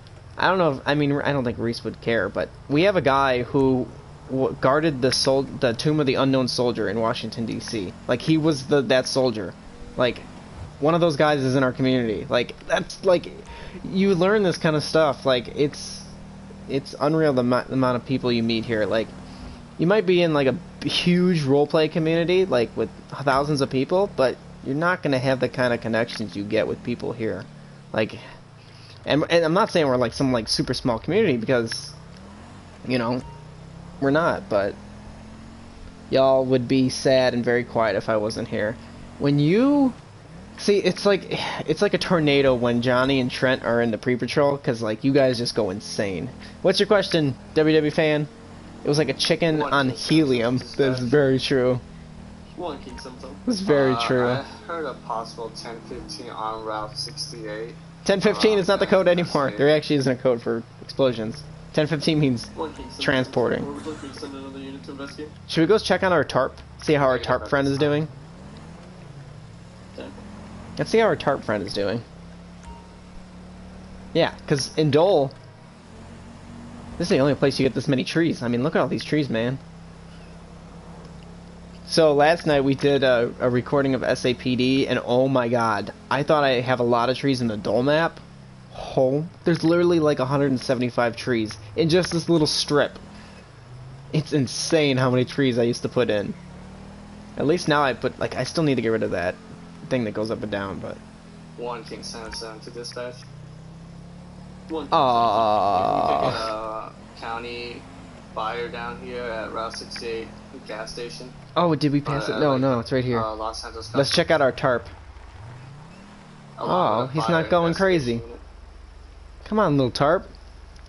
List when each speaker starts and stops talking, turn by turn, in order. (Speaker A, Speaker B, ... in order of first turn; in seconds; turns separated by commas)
Speaker A: 0.4-10.3, Speaker A: 10.8-16.1, Speaker A: 16.7-19.1, Speaker A: 19.8-28.2, Speaker A: 29.1-31.9, Speaker A: 32.8-33.2, Speaker A: 34.0-34.8, Speaker A: 36.1-40.0, Speaker A: 40.6-48.3, Speaker A: 48.8-51.8, Speaker B: 49.5-51.1, Speaker C: 52.5-53.4, Speaker A: 53.5-54.4, Speaker B: 53.7-59.7, Speaker A: 58.0-63.7, Speaker C: 62.5-65.3, Speaker A: 65.5-68.1, Speaker B: 67.0-68.0, Speaker C: 69.9-70.2, Speaker A: 70.8-72.0, Speaker A: 74.1-75.3, Speaker A: 77.0-79.6, Speaker A: 81.8-93.0, Speaker A: 94.1-96.4, Speaker A: 97.4-101.0, Speaker B: 101.6-103.2, Speaker C: 104.7-106.5, Speaker A: 104.9-106.5, Speaker B: 106.1-111.3, Speaker A: 111.5-113.3, Speaker B: 112.0-114.4, Speaker A: 113.9-114.9, Speaker B: 116.6-118.4, Speaker A: 116.6-118.2, Speaker A: 119.4-120.3